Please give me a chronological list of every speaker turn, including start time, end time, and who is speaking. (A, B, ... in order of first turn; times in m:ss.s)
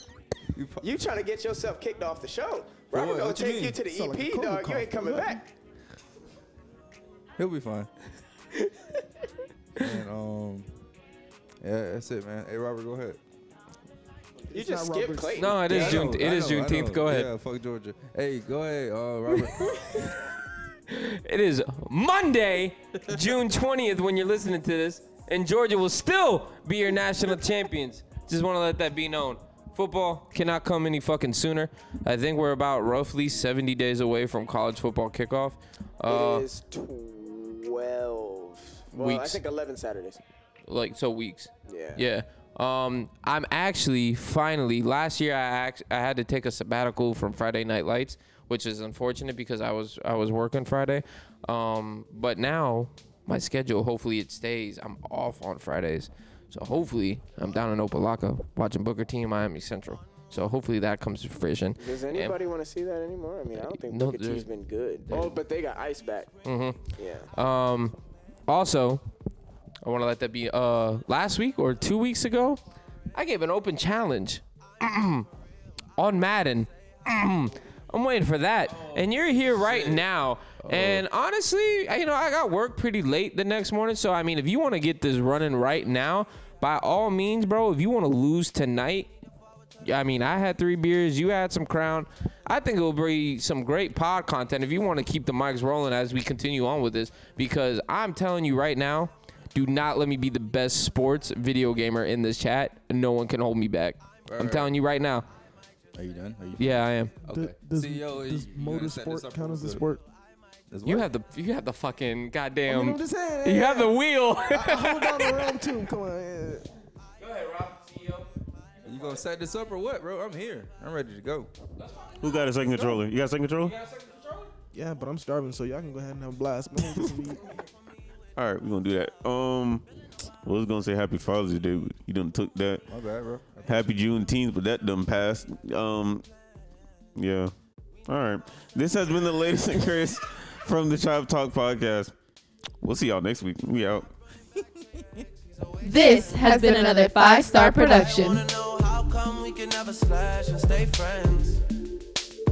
0:00.5-0:00.9 A
0:00.8-0:05.4 B
0:02.9-0:03.8 A
0:03.8-0:05.4 C
0:07.4-0:07.9 A
0:09.8-0:10.7 A
0:11.6-0:13.2 A
0:14.5-0:15.6 C
0:14.5-0:16.2 B
0:15.4-0:17.3 D
0:15.6-0:19.8 A
0:20.9-0:36.5 D
0:36.1-0:40.2 B
0:38.9-0:39.4 D
0:40.6-1:02.4 D
0:41.7-0:42.0 B
1:01.8-1:06.3 B
1:03.6-1:04.5 D
1:05.0-1:05.4 D
1:06.4-1:08.0 D
1:06.9-1:07.3 B
1:08.5-1:09.0 D
1:09.8-1:12.6 D
1:13.1-1:15.3 D
1:16.0-1:29.1 D
1:18.7-1:20.0 A
1:20.6-1:21.0 A
1:29.8-1:45.2 D
1:44.3-1:44.7 A
1:45.9-1:49.8 A
1:46.6-1:47.1 D
1:47.3-1:50.0 C
1:50.7-1:51.1 A
1:50.8-1:55.6 D
1:52.7-1:56.6 C
1:57.2-1:58.3 D
1:58.8-1:59.2 D
1:58.8-2:01.5 A
2:01.8-2:03.0 D
2:02.2-2:03.7 E
2:03.6-2:04.5 D
2:04.7-2:07.4 C
2:08.4-2:09.9 E
2:10.4-2:12.9 E
2:12.9-2:14.0 A
2:13.6-2:16.2 E
2:17.2-2:17.5 E
2:18.1-2:22.1 E
2:22.8-2:24.1 E
2:24.5-2:25.2 A
2:25.8-2:28.4 F
2:26.0-2:26.6 G
2:27.5-2:31.6 G